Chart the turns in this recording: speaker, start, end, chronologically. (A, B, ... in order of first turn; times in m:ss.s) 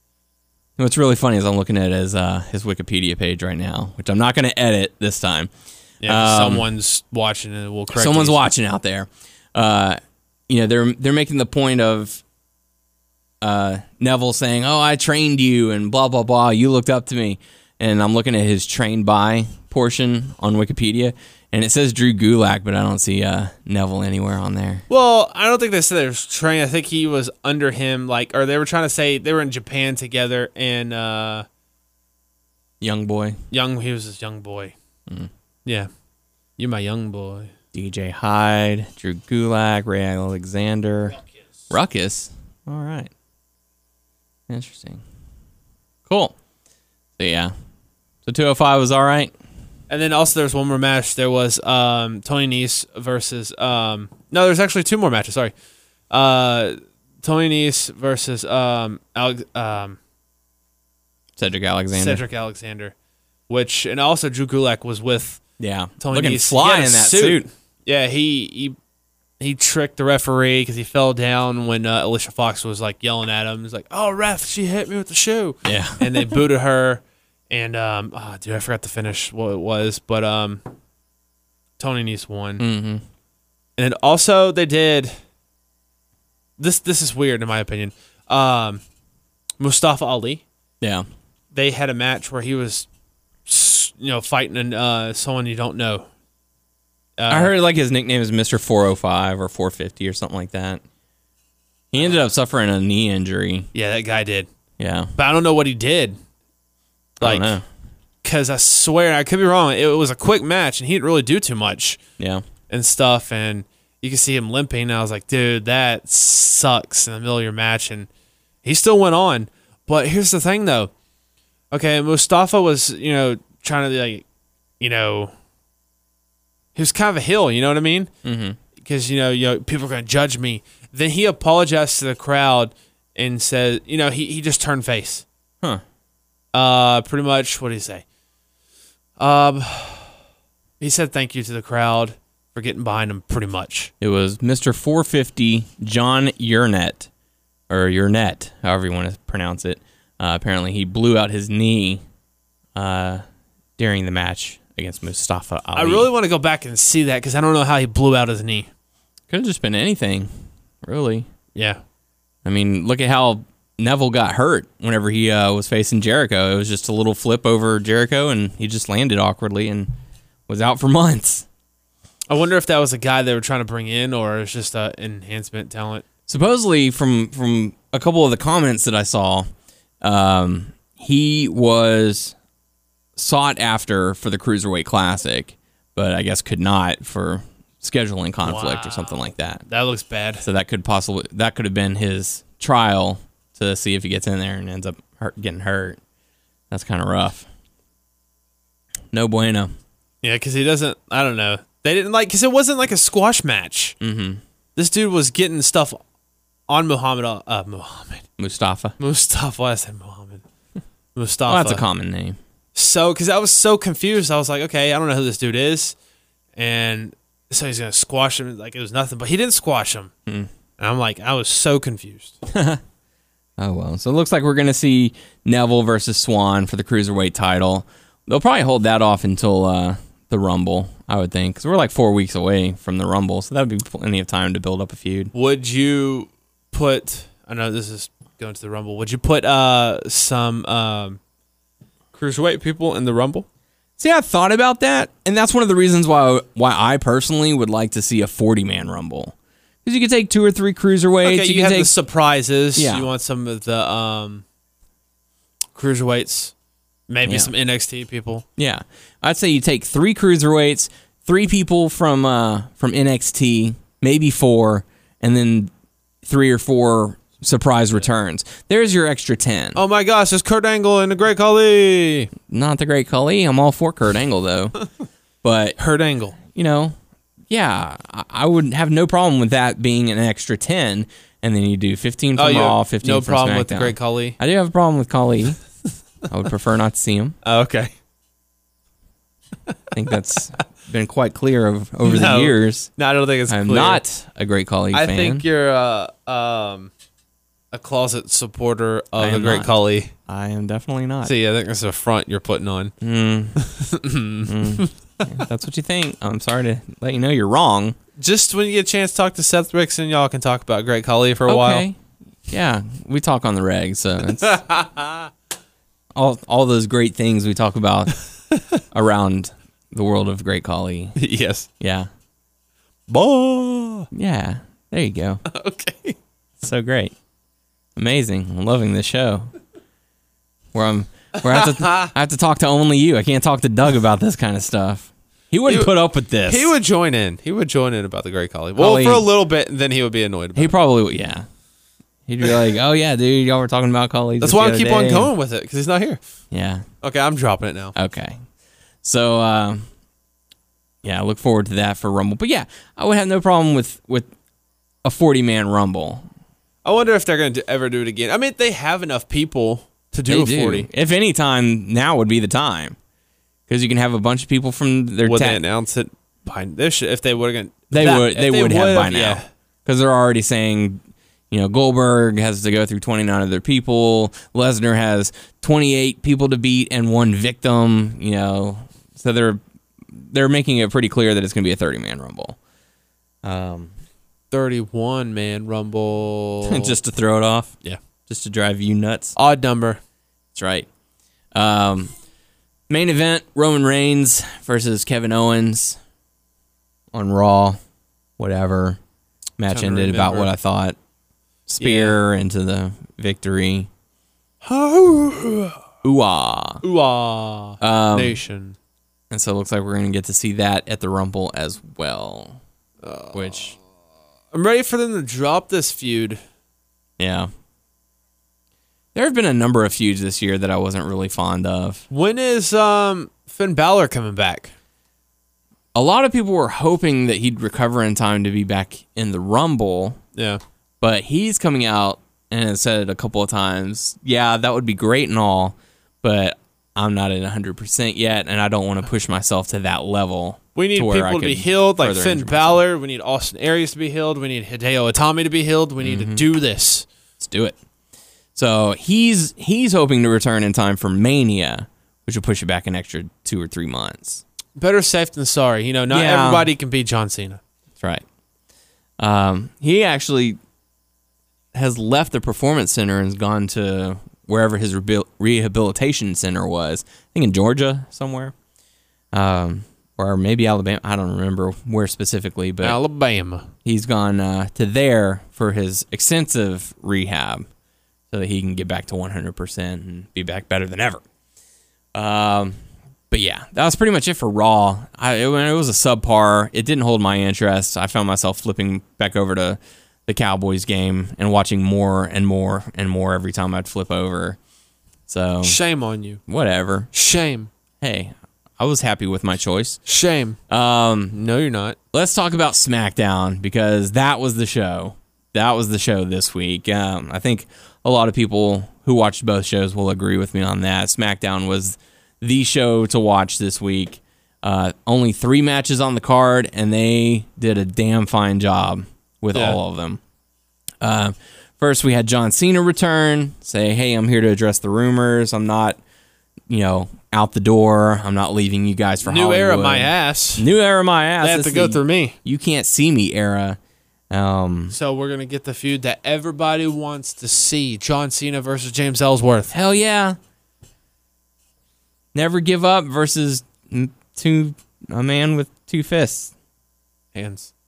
0:00.8-0:05.5 A
0:06.0-0:08.4 B
0:06.0-0:06.6 A
0:07.9-0:12.2 A
0:13.4-0:24.8 A
0:24.9-0:31.4 B
0:32.8-0:33.4 A
0:33.5-0:34.7 B
0:36.6-0:37.5 B
0:37.7-0:41.2 A
0:41.7-0:43.1 A
0:44.5-0:45.0 A
0:46.1-0:46.3 A
0:47.2-0:47.5 A
0:48.2-0:49.3 A
0:49.9-0:55.5 B
0:56.1-1:00.0 B
1:01.4-1:02.2 A
1:01.9-1:02.9 B
1:03.5-1:05.4 B
1:05.6-1:07.4 A
1:06.0-1:08.8 B
1:09.4-1:20.6 B
1:15.6-1:16.3 A
1:21.8-1:22.6 B
1:22.6-1:23.0 A
1:23.8-1:25.1 B
1:26.6-1:28.8 B
1:29.6-1:30.4 B
1:30.8-1:31.0 A
1:31.5-1:32.9 B
1:33.5-1:36.1 B
1:37.2-1:37.5 B
1:37.3-1:40.8 A
1:41.9-1:43.7 A
1:43.7-1:44.5 B
1:44.8-1:45.1 A
1:45.2-1:46.2 B
1:47.2-1:47.6 B
1:47.2-1:47.6 A
1:48.2-1:52.0 B
1:52.2-1:52.4 A
1:52.7-1:58.1 B
1:58.6-2:00.9 B
2:01.7-2:04.2 B
2:04.8-2:05.3 B
2:06.7-2:08.1 B
2:08.2-2:08.6 A
2:08.8-2:15.2 B
2:16.5-2:18.0 B
2:19.2-2:20.1 B
2:20.8-2:23.9 B
2:24.0-2:27.1 A
2:27.7-2:32.0 A
2:32.7-2:33.2 A
2:33.8-2:36.1 A
2:35.7-2:38.7 B
2:39.3-2:40.3 A
2:40.8-2:41.3 A
2:41.5-2:41.8 B
2:42.4-2:49.9 A
2:50.5-2:51.4 A
2:52.3-2:56.1 B
2:56.3-2:59.5 A
3:00.0-3:02.3 A
3:03.2-3:09.6 A
3:08.4-3:10.4 B
3:10.4-3:16.0 A
3:16.7-3:17.5 A
3:19.1-3:19.7 A
3:20.2-3:24.0 B
3:24.0-3:24.4 A
3:24.8-3:26.0 B
3:26.7-3:28.2 B
3:28.4-3:28.9 A
3:29.0-3:30.4 B
3:31.1-3:31.8 B
3:31.5-3:32.4 A
3:32.7-3:35.9 B
3:36.6-3:40.1 B
3:40.8-3:42.4 B
3:42.5-3:42.8 A
3:43.6-3:55.3 A
3:55.3-4:01.2 B
4:02.1-4:03.4 B
4:04.0-4:09.3 A
4:09.8-4:11.9 A
4:11.2-4:14.4 B
4:12.8-4:13.1 A
4:15.7-4:16.5 B
4:17.1-4:18.4 B
4:17.2-4:17.5 A
4:18.6-4:25.7 A
4:26.2-4:29.8 A
4:29.7-4:32.3 B
4:32.5-4:34.8 A
4:35.4-4:35.8 A
4:35.8-4:36.4 B
4:36.4-4:37.0 A
4:37.5-4:45.6 A
4:42.4-4:44.4 B
4:46.3-4:47.4 A
4:47.4-4:47.9 B
4:49.9-4:52.9 A
4:52.0-4:54.0 B
4:53.5-4:55.4 A
4:54.9-4:56.9 B
4:57.7-5:00.1 B
4:59.2-4:59.7 A
5:00.3-5:01.3 A
5:01.2-5:02.9 B
5:03.0-5:03.6 A
5:03.6-5:04.9 B
5:04.4-5:08.0 A
5:08.2-5:11.8 B
5:11.5-5:12.0 A
5:12.5-5:14.6 A
5:14.4-5:15.3 B
5:16.1-5:18.2 A
5:18.9-5:21.2 A
5:21.2-5:21.7 B
5:21.8-5:22.1 A
5:23.1-5:24.1 B
5:24.1-5:25.4 A
5:25.5-5:26.2 B
5:26.6-5:27.1 A
5:28.0-5:29.5 A
5:30.7-5:36.7 A
5:31.5-5:32.1 B
5:35.6-5:35.9 B
5:36.4-5:40.7 B
5:38.8-5:39.3 A
5:40.6-5:41.4 A
5:42.3-5:45.3 A
5:44.4-5:46.2 B
5:46.5-5:46.8 A
5:47.0-5:47.9 B
5:48.0-5:48.4 A
5:49.0-5:49.9 A
5:51.0-5:54.3 A
5:55.0-5:56.2 A
5:56.8-6:00.9 B
6:00.3-6:03.0 A
6:03.7-6:05.6 A
6:05.2-6:09.5 B
6:07.9-6:22.6 A
6:23.4-6:23.9 A
6:24.5-6:27.0 B
6:26.6-6:27.7 A
6:28.3-6:29.3 A
6:29.3-6:30.0 B
6:30.5-6:30.9 A
6:31.5-6:32.1 A
6:32.9-6:36.0 A
6:37.1-6:37.8 A
6:38.4-6:39.0 A
6:39.6-6:41.0 A
6:39.7-6:40.5 B
6:41.7-6:43.9 A
6:41.8-6:42.2 B
6:44.6-6:45.8 B
6:46.0-6:46.8 A
6:46.8-6:48.8 B
6:47.8-6:48.4 A
6:49.3-6:52.6 A
6:53.0-6:53.8 B
6:53.3-6:53.7 A
6:54.5-6:56.4 B
6:57.2-6:57.5 A
6:59.1-7:02.0 A
7:02.1-7:04.7 B
7:05.9-7:10.2 A
7:10.3-7:10.6 B
7:11.0-7:22.8 A
7:20.7-7:27.0 B
7:26.0-7:26.4 A
7:27.4-7:27.8 A
7:28.6-7:34.4 A
7:34.8-7:37.6 B
7:36.1-7:36.7 A
7:39.2-7:40.6 A
7:41.7-7:48.5 A
7:49.3-7:53.0 A
7:52.8-7:53.7 B
7:53.8-7:57.6 A
7:58.3-8:01.2 A
8:02.1-8:02.8 A
8:03.3-8:14.6 A
8:15.3-8:15.8 A
8:15.6-8:16.4 B
8:16.5-8:17.1 A
8:17.1-8:17.7 B
8:18.0-8:20.0 A
8:20.1-8:20.6 B
8:20.7-8:21.4 A
8:21.3-8:22.0 B
8:22.1-8:40.2 A
8:39.5-8:39.8 B
8:41.0-8:46.0 A
8:46.7-8:53.8 A
8:49.2-8:50.7 B
8:51.4-8:52.4 B
8:54.3-8:54.9 A
8:54.9-8:59.7 B
8:59.7-9:00.4 A
9:02.3-9:06.5 A
9:07.3-9:07.7 B